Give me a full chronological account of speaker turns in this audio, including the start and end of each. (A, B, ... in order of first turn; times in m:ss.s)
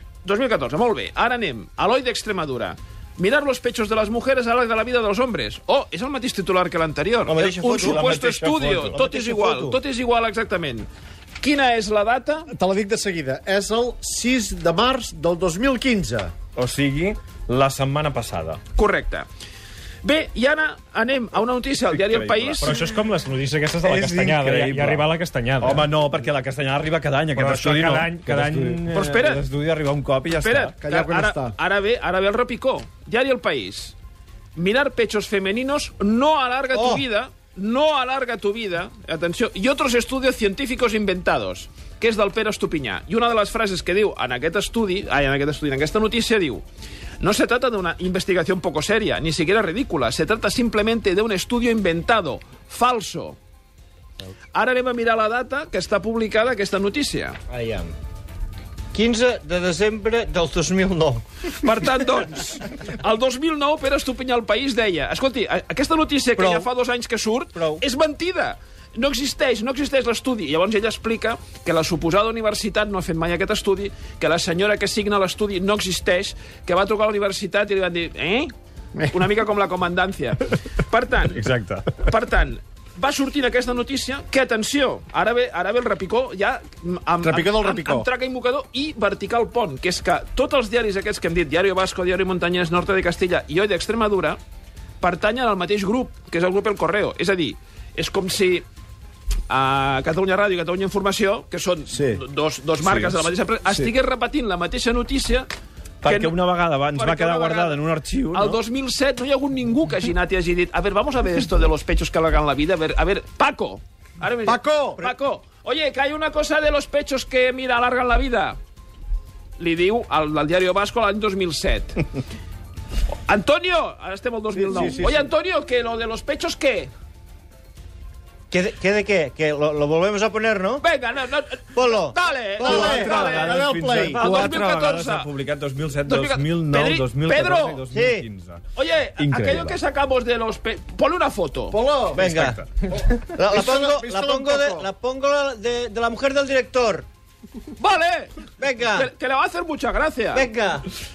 0:00.2-0:10.9 A
0:07.3-0:08.3 B
0:07.7-0:09.0 C
0:08.9-0:09.8 B
0:11.4-0:12.5 A
0:12.5-0:16.3 D
0:16.6-0:18.6 C
0:18.8-0:19.3 A
0:20.0-0:22.8 A
0:21.9-0:22.8 C
0:22.6-0:25.9 E
0:23.8-0:25.0 C
0:25.6-0:30.7 C
0:27.3-0:28.8 E
0:28.9-0:29.4 A
0:30.4-0:34.0 A
0:30.8-0:31.5 D
0:34.6-0:46.6 A
0:36.7-0:37.0 B
0:47.2-0:53.4 A
0:54.5-0:57.4 A
0:57.5-0:57.9 B
0:58.9-1:01.2 B
1:01.5-1:18.5 A
1:06.4-1:06.7 B
1:07.5-1:07.8 B
1:19.1-1:34.4 A
1:21.3-1:22.0 C
1:27.2-1:28.1 D
1:35.0-1:38.6 A
1:39.5-1:45.5 A
1:41.9-1:42.2 D
1:42.8-1:43.8 C
1:46.0-1:48.6 C
1:46.0-1:46.4 A
1:46.9-1:47.8 A
1:48.3-1:58.6 A
1:54.4-1:55.0 D
1:59.6-2:02.0 A
2:03.2-2:06.9 A
2:04.5-2:05.3 D
2:08.5-2:10.8 B
2:10.8-2:15.3 A
2:11.7-2:12.2 B
2:12.6-2:14.5 D
2:12.6-2:18.6 C
2:16.0-2:17.8 A
2:17.9-2:18.2 B
2:18.8-2:21.8 A
2:19.2-2:19.8 C
2:21.7-2:22.3 D
2:22.1-2:27.0 B
2:22.2-2:22.7 C
2:22.9-2:24.9 D
2:27.8-2:28.3 A
2:28.6-2:29.1 B
2:28.9-2:30.5 A
2:30.3-2:30.9 B